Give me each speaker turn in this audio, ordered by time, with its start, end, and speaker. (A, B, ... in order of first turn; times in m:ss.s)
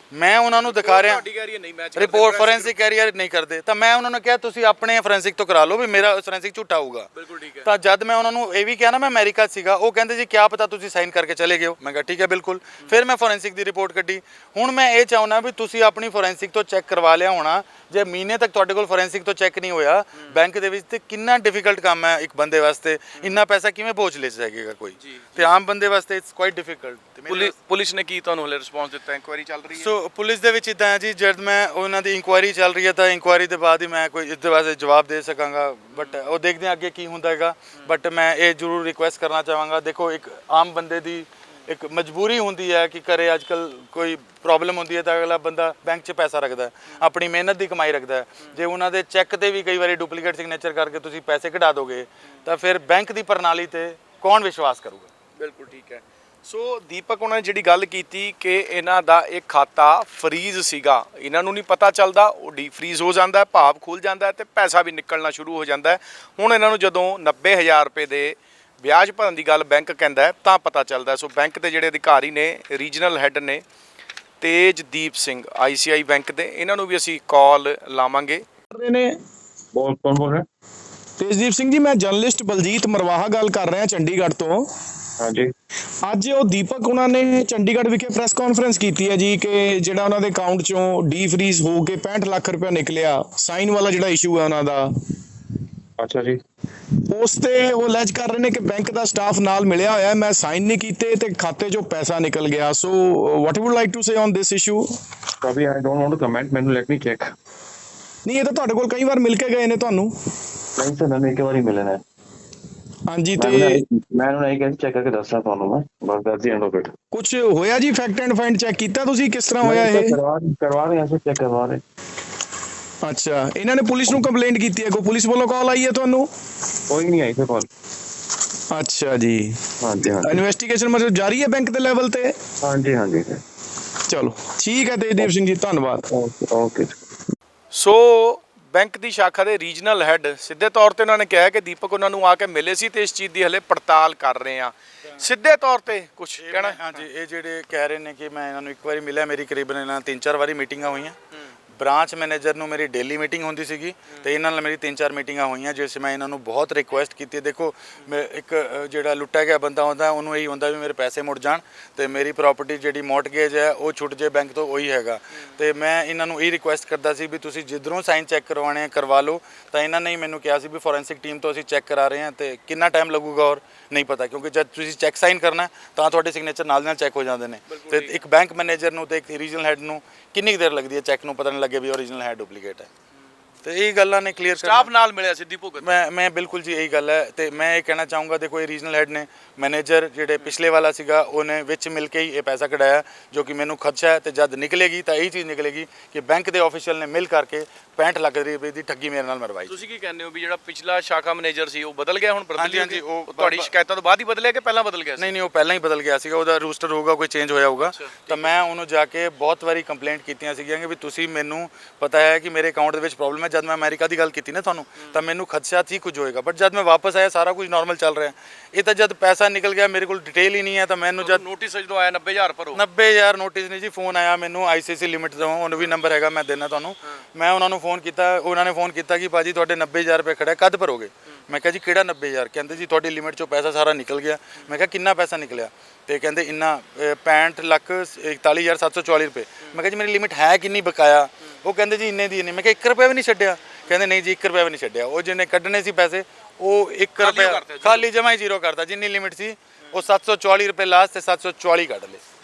0:00.1-0:01.3 A
0:00.6-0:02.7 B
0:02.0-0:07.1 A
0:07.2-0:07.7 B
0:07.6-0:27.5 A
0:25.0-0:25.5 B
0:27.3-0:29.9 B
0:29.7-0:55.1 A
0:55.4-1:13.6 B
1:14.4-1:19.2 B
1:19.7-1:20.4 C
1:21.2-1:24.7 B
1:25.2-1:25.5 C
1:26.0-1:34.9 B
1:36.0-1:36.4 C
1:37.0-1:44.9 B
1:45.4-1:47.3 C
1:48.2-1:50.1 B
1:50.8-1:52.0 C
1:53.1-1:53.8 B
1:53.4-1:56.9 C
1:57.1-2:00.2 B
1:59.6-2:01.8 C
2:03.0-2:06.3 B
2:06.9-2:07.7 C
2:08.7-2:12.4 B
2:09.8-2:10.4 C
2:12.6-2:13.4 C
2:14.1-2:16.1 B
2:16.1-2:16.9 C
2:17.7-2:26.8 B
2:26.4-2:31.2 A
2:31.8-3:02.9 A
2:57.7-2:58.2 B
3:03.6-3:04.9 A
3:04.6-3:06.0 B
3:05.8-3:19.7 A
3:19.7-3:25.3 B
3:22.6-3:23.7 A
3:25.2-3:41.4 A
3:27.8-3:28.5 B
3:41.2-3:42.8 B
3:42.7-4:12.2 A
4:07.2-4:08.1 B